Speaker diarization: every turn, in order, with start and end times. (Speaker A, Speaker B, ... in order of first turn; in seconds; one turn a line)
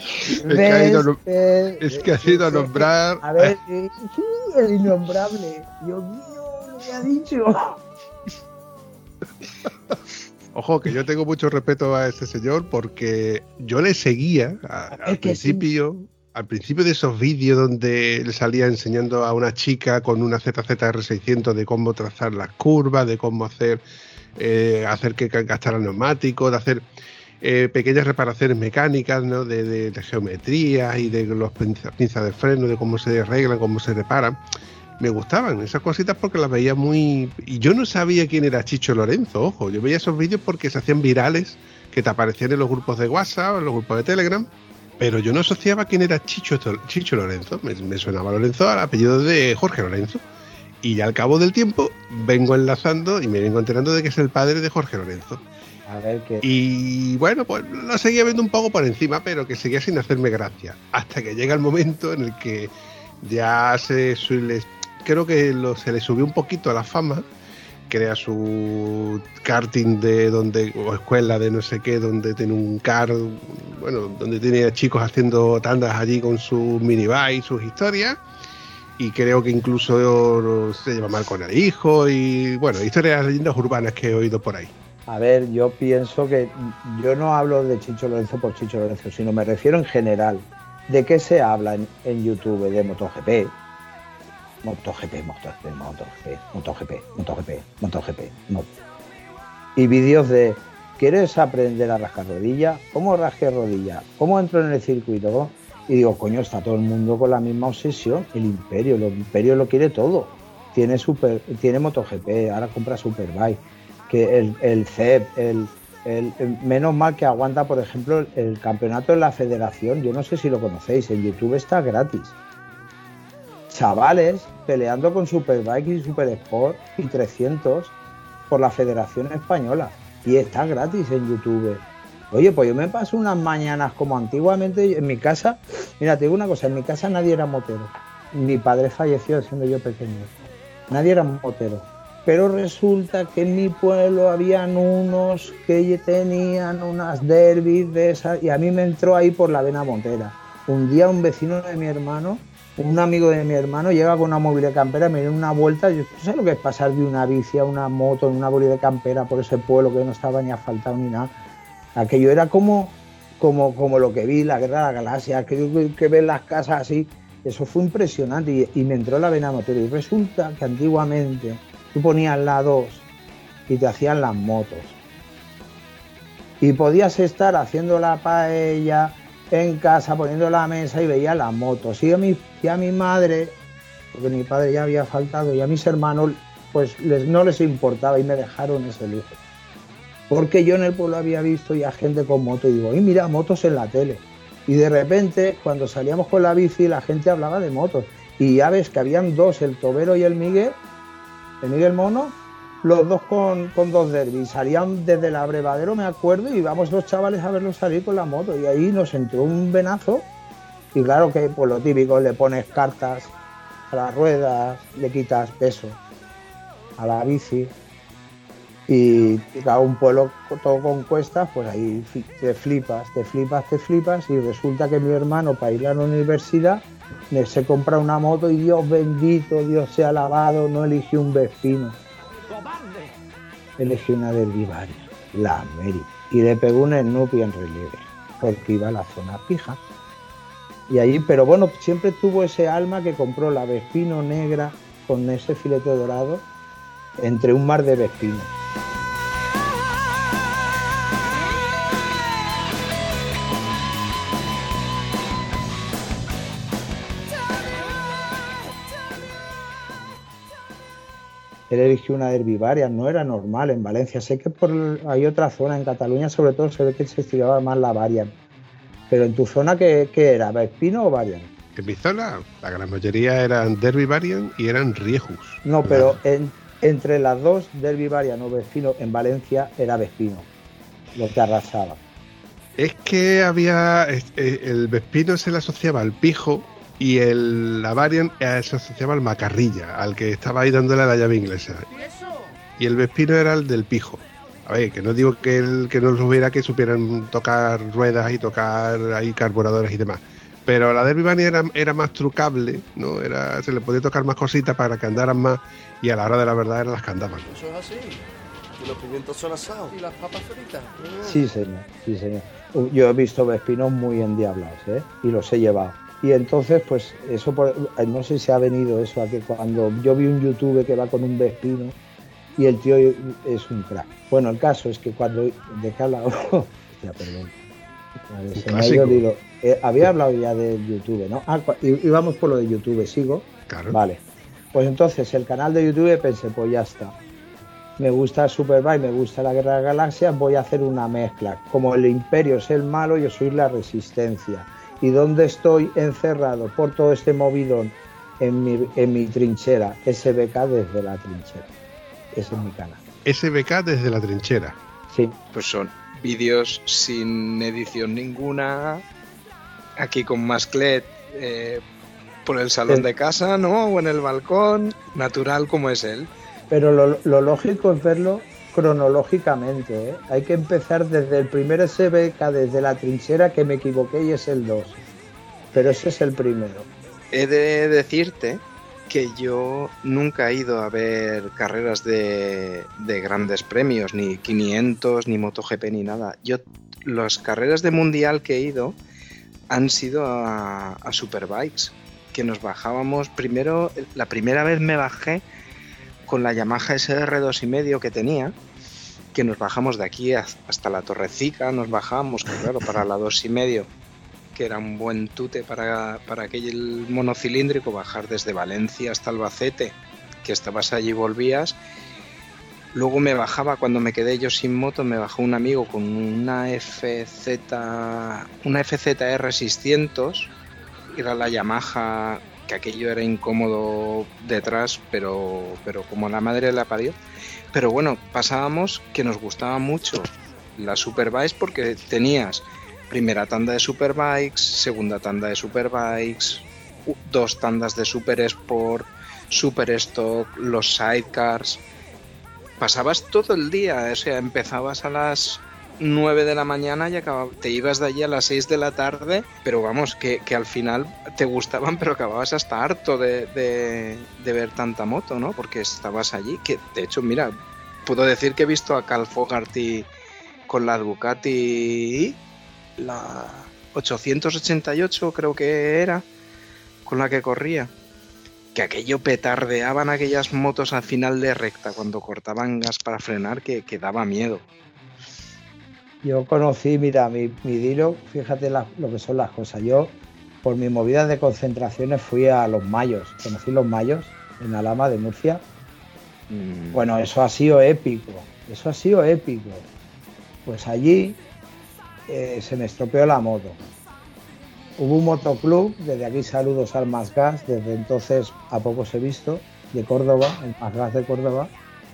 Speaker A: 0.3-7.8
Speaker B: 0.5-1.2
Speaker B: 1.8-3.6
Speaker B: 10.5-23.8
Speaker A: 15.0-15.7
Speaker B: 24.4-26.9
Speaker B: 27.4-34.4
Speaker B: 35.0-50.2
Speaker B: 50.8-55.4
Speaker A: 55.9-56.4
Speaker B: 56.4-67.2
Speaker B: 67.9-78.2
Speaker B: 79.0-84.7
Speaker A: 85.1-93.6
Speaker A: 94.6-98.8
Speaker A: 99.8-122.3
Speaker A: 123.7-128.0
Speaker A: 128.5-140.3
Speaker A: 140.9-161.3
Speaker A: 161.9-173.1
Speaker A: 173.7-175.0
Speaker A: 176.6-183.6
Speaker A: 184.1-189.4
Speaker A: 190.3-200.8
Speaker A: 201.6-210.3
Speaker A: 210.9-213.3
Speaker A: 213.9-216.0
Speaker A: 217.0-217.7
Speaker A: 218.9-232.0
Speaker A: 233.8-239.8
Speaker A: 240.9-246.4
Speaker A: 247.2-248.5
Speaker A: 261.7-268.4
Speaker A: 269.1-271.5
Speaker B: 271.8-276.2
Speaker A: 275.6-280.5
Speaker A: 281.1-282.0
Speaker B: 282.8-291.9
Speaker C: 291.9-292.2
Speaker B: 292.8-307.5
Speaker C: 307.6-308.2
Speaker C: 308.8-311.2
Speaker A: 311.2-322.0
Speaker A: 322.6-327.5
Speaker A: 328.3-334.2
Speaker B: 328.6-329.2
Speaker B: 333.7-334.0
Speaker A: 334.7-337.1
Speaker A: 338.0-351.7
Speaker A: 352.3-353.0
Speaker B: 353.2-354.8
Speaker A: 355.1-355.4
Speaker D: 355.5-359.0
Speaker D: 360.0-361.8
Speaker D: 362.5-366.3
Speaker A: 366.7-375.0
Speaker A: 375.7-376.9
Speaker D: 377.3-389.0
Speaker D: 389.7-395.4
Speaker D: 396.3-398.5
Speaker D: 399.3-403.9
Speaker D: 404.6-411.8
Speaker D: 412.9-420.5
Speaker D: 421.1-427.2
Speaker D: 427.7-441.8
Speaker D: 442.8-457.6
Speaker D: 458.1-460.1
Speaker D: 460.7-462.4
Speaker D: 463.0-466.2
Speaker D: 467.1-467.9
Speaker D: 468.8-474.7
Speaker A: 476.2-485.6
Speaker D: 486.5-487.1
Speaker A: 486.9-489.9
Speaker A: 490.7-491.4
Speaker A: 492.3-493.8
Speaker A: 495.0-501.7